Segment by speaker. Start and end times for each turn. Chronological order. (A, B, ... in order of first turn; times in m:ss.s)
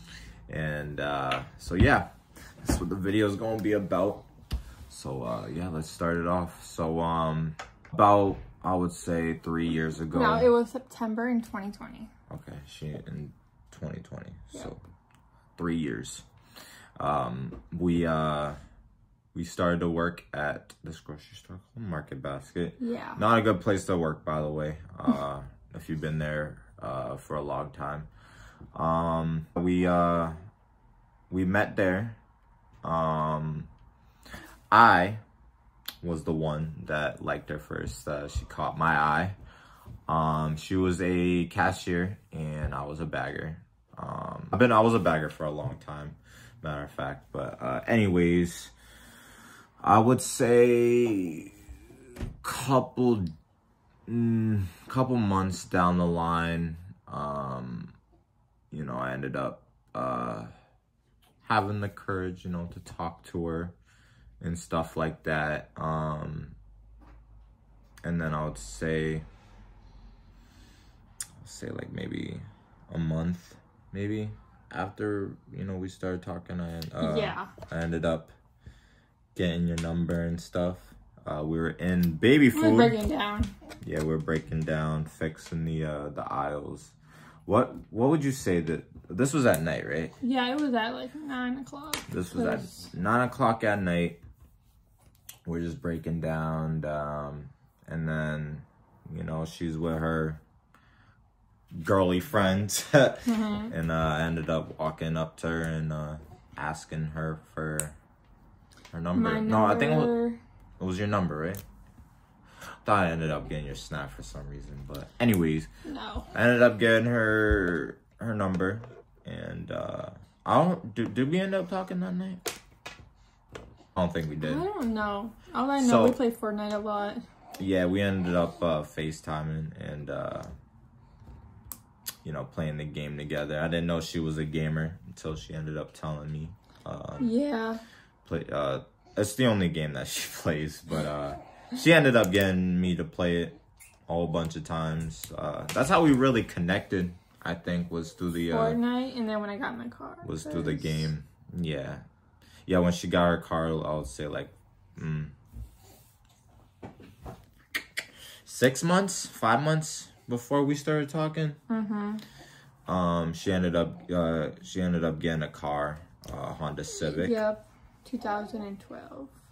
0:00.5-0:02.1 A
0:02.6-0:04.3 A
0:04.9-0:10.5 A
0:10.1-0:12.1 B
0:12.3-0:14.8 A
0:15.6-0:16.3 A
0:17.0-0:18.6 A
0:19.3-0:28.1 A
0:22.8-0:23.2 B
0:28.7-0:30.4 A
0:31.3-0:32.2 A
0:32.8-0:33.7 A
0:34.7-0:35.2 A
0:36.0-0:39.4 A
0:40.1-0:48.7 A
0:49.8-0:51.5 A
0:52.4-0:53.3 A
0:54.1-0:57.9 A
0:58.7-1:00.5 A
1:01.4-1:03.8 A
1:04.4-1:06.6 A
1:08.0-1:09.2 A
1:11.4-1:18.3 A
1:17.0-1:17.5 B
1:19.4-1:23.0 A
1:22.5-1:23.5 B
1:23.8-1:30.2 A
1:30.2-1:32.9 B
1:32.1-1:34.2 A
1:35.4-1:40.4 A
1:41.7-1:48.0 A
1:43.3-1:43.7 B
1:48.9-1:50.2 A
1:49.1-1:50.4 B
1:50.8-1:51.6 A
1:52.8-1:55.7 A
1:55.9-1:56.3 B
1:56.3-2:02.4 A
2:04.0-2:04.7 A
2:04.4-2:07.2 B
2:05.8-2:06.2 A
2:07.6-2:10.5 A
2:12.2-2:17.4 A
2:17.2-2:17.8 B
2:18.2-2:28.8 A
2:28.5-2:31.1 B
2:30.2-2:32.0 A
2:32.7-2:35.3 A
2:38.4-2:41.6 A
2:41.7-2:42.2 B
2:42.9-2:47.4 A
2:47.0-2:49.3 B